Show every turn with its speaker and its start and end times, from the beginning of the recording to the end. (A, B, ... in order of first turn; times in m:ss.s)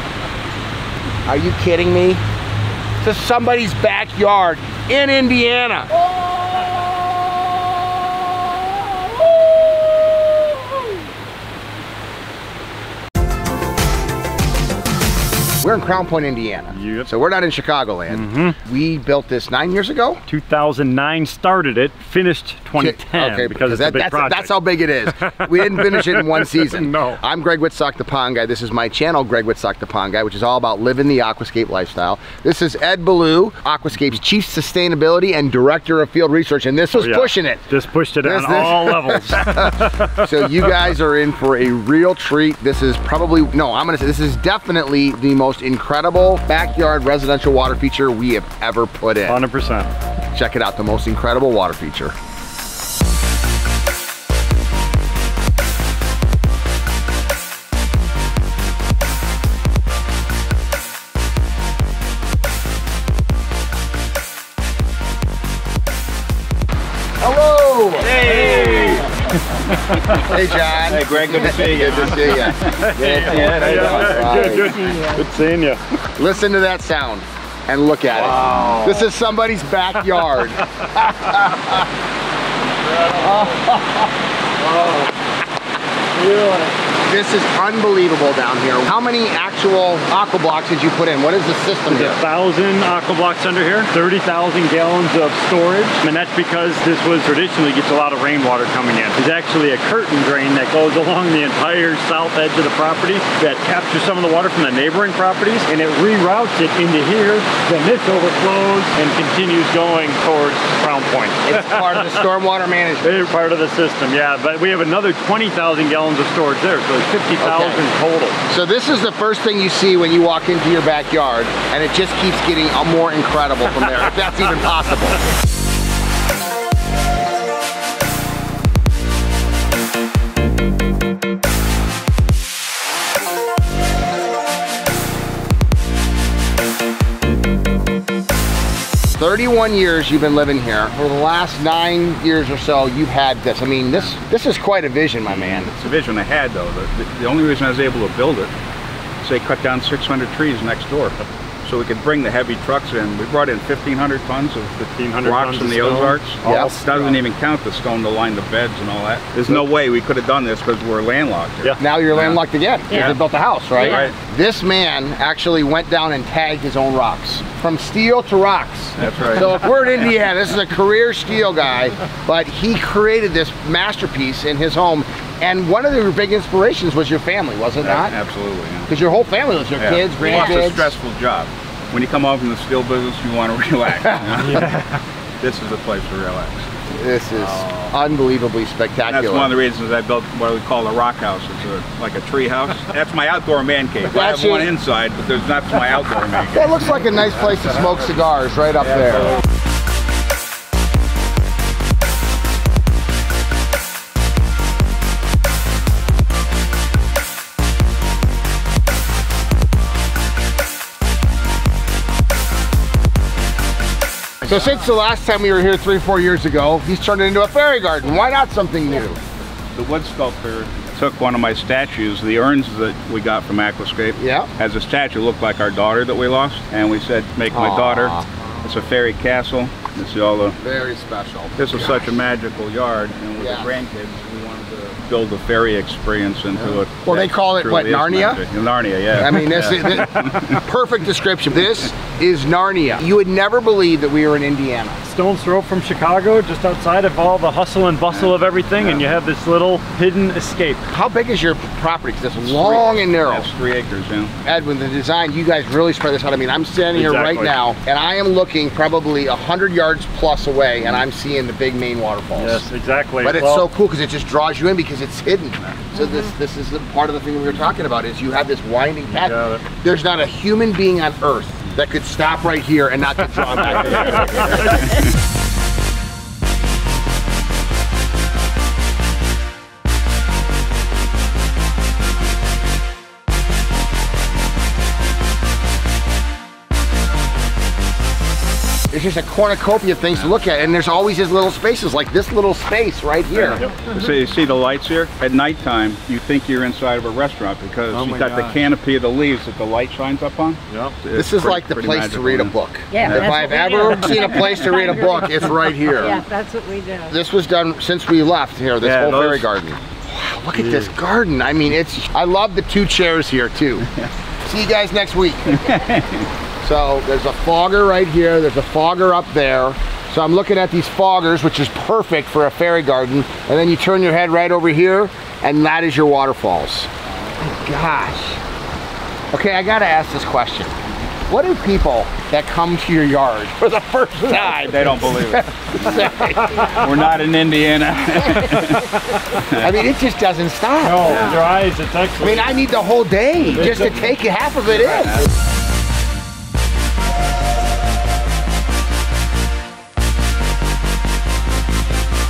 0:01.3-0:02.2 A
0:03.0-0:05.9 A
0:15.6-0:20.2 A
0:16.7-0:17.1 B
0:18.1-0:18.6 B
0:20.3-0:24.5 B
0:22.8-0:37.6 A
0:25.7-0:27.2 B
0:37.0-0:40.1 B
0:38.2-0:49.4 A
0:49.3-0:49.9 B
0:50.3-0:52.1 A
1:07.2-1:08.9 A
1:08.0-1:09.1 C
1:10.1-1:14.8 A
1:10.8-1:14.5 C
1:12.7-1:15.8 B
1:14.2-1:15.3 D
1:16.2-1:21.9 A
1:18.2-1:19.1 B
1:23.1-1:23.6 B
1:23.2-1:24.0 A
1:24.7-1:25.1 B
1:26.2-1:26.7 B
1:27.1-1:32.2 A
1:31.9-1:52.1 B
1:51.5-1:53.3 A
1:53.0-1:58.4 B
1:57.4-1:57.8 A
1:58.5-2:05.2 A
2:19.2-2:25.7 A
2:25.3-2:28.5 C
2:29.2-2:43.2 C
2:35.0-2:37.2 B
2:36.4-2:36.7 A
2:41.8-2:58.2 A
2:43.8-2:44.1 C
2:49.0-2:49.5 C
2:57.8-2:58.9 C
2:58.9-3:00.9 A
2:59.8-3:04.7 C
3:00.2-3:00.6 D
3:04.4-3:05.0 B
3:05.4-3:06.7 C
3:06.9-3:09.5 A
3:07.4-3:07.9 C
3:09.1-3:16.8 C
3:14.1-3:14.7 A
3:16.6-3:19.4 A
3:34.5-3:39.2 A
3:39.8-3:50.6 C
3:44.2-3:44.5 A
3:47.5-3:48.3 A
3:50.6-3:52.0 A
3:51.6-4:00.6 C
3:53.4-3:53.7 A
3:57.0-3:58.4 A
3:59.2-4:05.1 A
4:05.1-4:10.9 B
4:08.1-4:09.0 C
4:10.9-4:13.5 A
4:12.4-4:14.4 C
4:14.4-4:22.6 A
4:16.9-4:17.6 B
4:22.4-4:23.7 B
4:23.2-4:35.0 A
4:29.1-4:29.6 B
4:48.9-4:53.6 A
4:53.3-5:03.5 C
4:57.9-4:58.7 B
5:00.7-5:01.0 B
5:01.1-5:06.2 A
5:02.9-5:07.2 D
5:07.1-5:13.9 A
5:08.8-5:09.5 C
5:10.5-5:10.9 B
5:14.4-5:15.5 A
5:15.5-5:16.3 C
5:16.6-5:28.4 A
5:29.3-5:30.7 A
5:31.3-5:36.7 A
5:34.5-5:35.8 C
5:36.6-5:39.7 C
5:39.6-5:41.3 A
5:40.8-5:42.6 B
5:41.0-5:41.4 C
5:42.2-5:45.3 A
5:44.9-5:45.3 C